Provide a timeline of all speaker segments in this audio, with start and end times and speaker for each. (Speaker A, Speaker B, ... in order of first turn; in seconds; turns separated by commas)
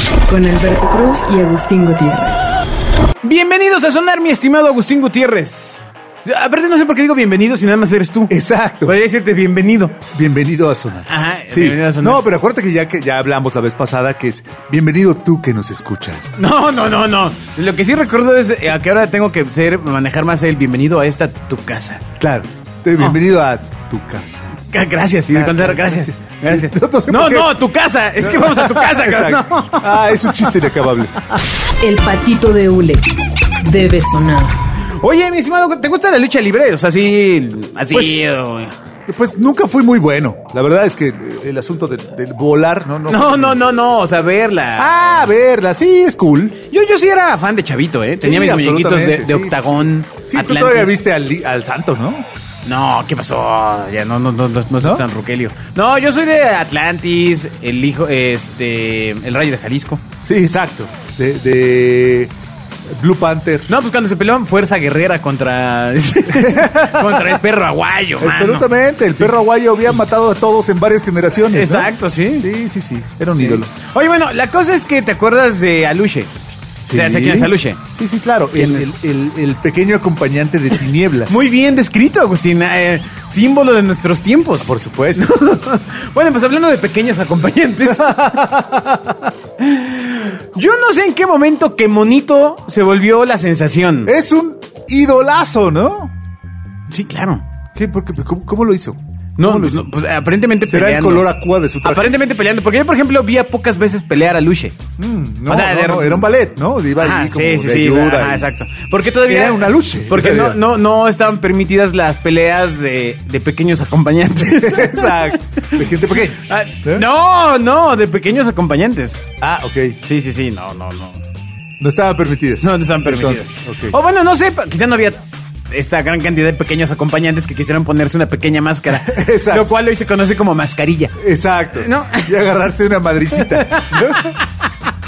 Speaker A: 0.3-2.6, Speaker B: 3.2-8.3, Speaker C: 8.3-9.0, Speaker B: 8.8-9.9, Speaker C: 10.0-16.4, Speaker B: 11.1-12.2, Speaker B: 16.4-22.0, Speaker C: 22.2-24.6, Speaker B: 24.7-30.5, Speaker C: 25.3-27.5, Speaker C: 28.2-31.4, Speaker A: 31.8-33.1, Speaker A: 33.6-34.5, Speaker B: 34.9-38.7, Speaker C: 37.9-38.2, Speaker C: 39.1-43.6, Speaker B: 43.1-44.9, Speaker C: 44.8-46.6, Speaker B: 46.7-51.0, Speaker C: 48.2-52.3, Speaker B: 52.6-60.0, Speaker C: 60.2-62.3, Speaker C: 62.9-63.7, Speaker B: 63.7-68.7, Speaker C: 66.3-67.4, Speaker C: 68.2-73.7, Speaker B: 71.5-72.5, Speaker B: 73.3-76.3, Speaker C: 76.8-81.5, Speaker B: 76.9-77.8, Speaker B: 78.5-78.9, Speaker B: 81.3-88.2, Speaker C: 84.6-85.2, Speaker C: 87.8-89.3, Speaker B: 89.6-94.1, Speaker C: 94.0-96.1, Speaker B: 96.9-97.4, Speaker C: 97.7-99.9, Speaker B: 99.4-101.3, Speaker C: 100.6-102.2, Speaker B: 101.8-104.8, Speaker C: 105.0-108.5, Speaker B: 105.5-106.3, Speaker B: 107.0-119.2, Speaker C: 109.3-110.6, Speaker C: 114.4-117.1, Speaker C: 119.4-120.0, Speaker B: 120.0-121.2, Speaker C: 121.8-124.0, Speaker B: 122.6-131.2, Speaker C: 128.9-129.7, Speaker C: 131.2-134.3, Speaker B: 131.8-132.3, Speaker B: 133.4-134.5